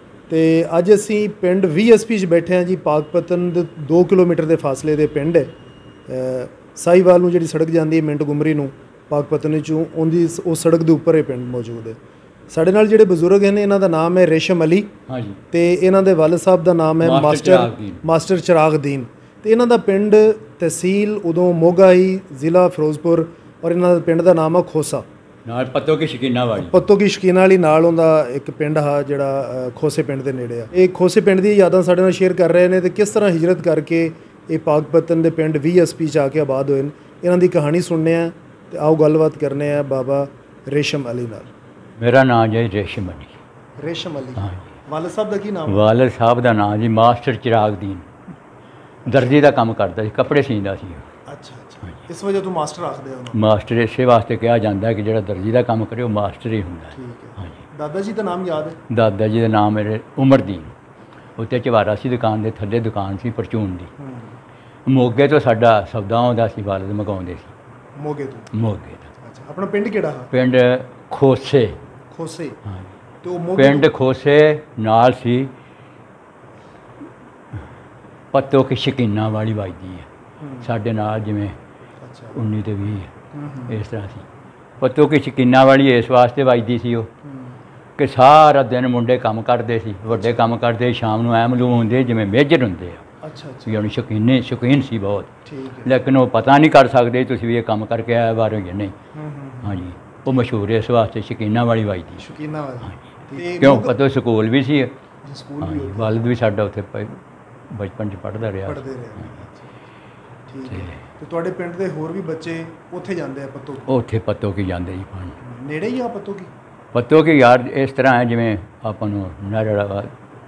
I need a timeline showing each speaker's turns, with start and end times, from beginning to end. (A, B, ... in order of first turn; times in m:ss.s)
0:00.3-0:05.5 A
0:06.1-0:12.0 A
0:12.5-0:14.9 A
0:15.1-0:15.4 B
0:15.5-0:25.0 A
0:17.0-0:18.0 B
0:25.4-0:26.8 B
0:26.5-0:41.5 A
0:42.0-0:43.4 B
0:43.8-0:45.9 A
0:44.4-0:44.6 B
0:45.7-0:48.1 B
0:49.0-0:49.4 A
0:49.1-0:51.0 B
0:51.3-0:53.4 A
0:53.3-0:57.5 B
0:56.9-0:58.8 A
0:58.9-1:00.7 B
1:01.4-1:03.9 B
1:04.0-1:04.4 A
1:04.8-1:07.5 B
1:08.0-1:08.5 A
1:08.5-1:09.1 B
1:09.2-1:10.3 A
1:10.3-1:11.8 B
1:12.1-1:12.6 A
1:12.6-1:12.9 B
1:13.2-1:13.9 A
1:13.6-1:15.5 B
1:18.3-1:20.1 B
1:20.4-1:20.7 A
1:20.6-1:21.6 B
1:22.0-1:22.4 A
1:22.3-1:23.1 B
1:23.3-1:23.8 A
1:23.7-1:24.2 B
1:24.8-1:27.1 B
1:27.2-1:27.6 A
1:28.0-1:33.0 B
1:30.0-1:30.4 A
1:33.2-1:33.8 A
1:33.7-1:35.3 B
1:35.4-1:36.0 A
1:35.8-1:38.9 B
1:39.1-1:40.4 A
1:39.6-1:42.2 B
1:42.2-1:44.0 A
1:42.8-1:44.9 B
1:45.2-1:46.3 A
1:45.6-1:48.8 B
1:48.6-1:49.7 A
1:50.5-1:54.0 A
1:50.7-1:51.0 B
1:53.9-1:55.4 B
1:55.4-1:56.5 A
1:56.9-2:00.1 B